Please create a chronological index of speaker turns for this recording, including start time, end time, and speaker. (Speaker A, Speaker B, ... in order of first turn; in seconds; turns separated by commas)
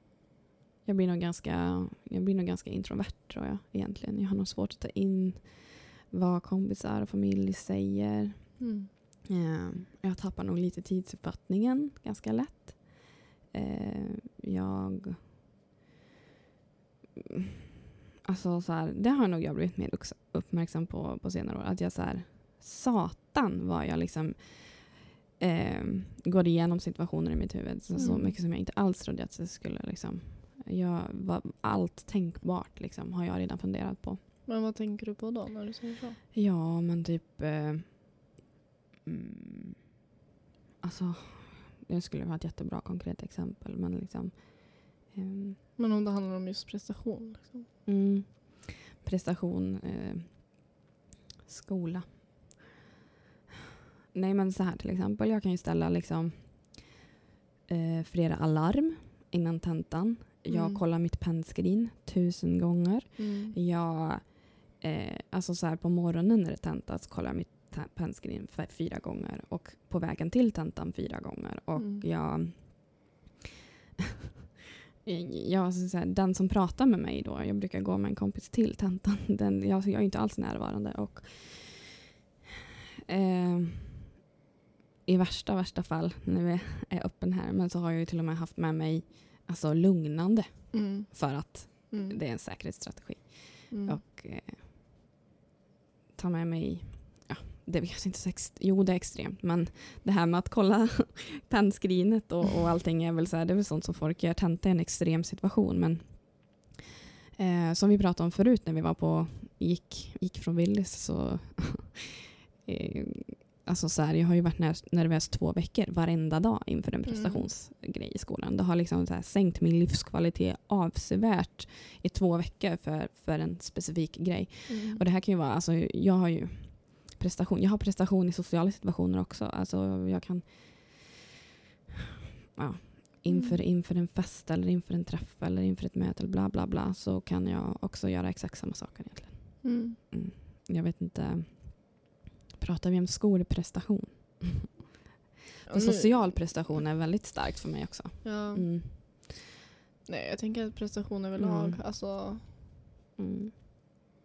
Speaker A: 0.8-8.6, Speaker B: 8.6-8.9, Speaker A: 9.3-15.2, Speaker A: 18.2-34.2, Speaker B: 28.0-28.4, Speaker B: 34.5-36.2, Speaker A: 36.3-38.3, Speaker A: 39.0-39.9, Speaker A: 40.8-45.6, Speaker B: 45.8-47.7, Speaker A: 47.9-50.7, Speaker A: 51.5-52.4, Speaker A: 54.1-56.9, Speaker A: 57.7-73.1, Speaker B: 60.5-60.8, Speaker B: 63.2-63.6, Speaker B: 71.8-72.1, Speaker A: 75.0-82.0, Speaker A: 83.1-84.0, Speaker A: 85.1-94.7, Speaker B: 90.7-92.2, Speaker B: 93.7-94.0, Speaker A: 96.1-106.7, Speaker A: 107.4-131.2, Speaker B: 117.1-117.5, Speaker B: 124.7-125.0, Speaker A: 132.6-144.8, Speaker B: 133.3-133.6, Speaker B: 139.6-140.0, Speaker B: 145.7-146.6, Speaker A: 145.7-149.3, Speaker B: 148.2-148.7, Speaker B: 150.1-152.5, Speaker A: 151.4-151.8, Speaker A: 153.2-153.5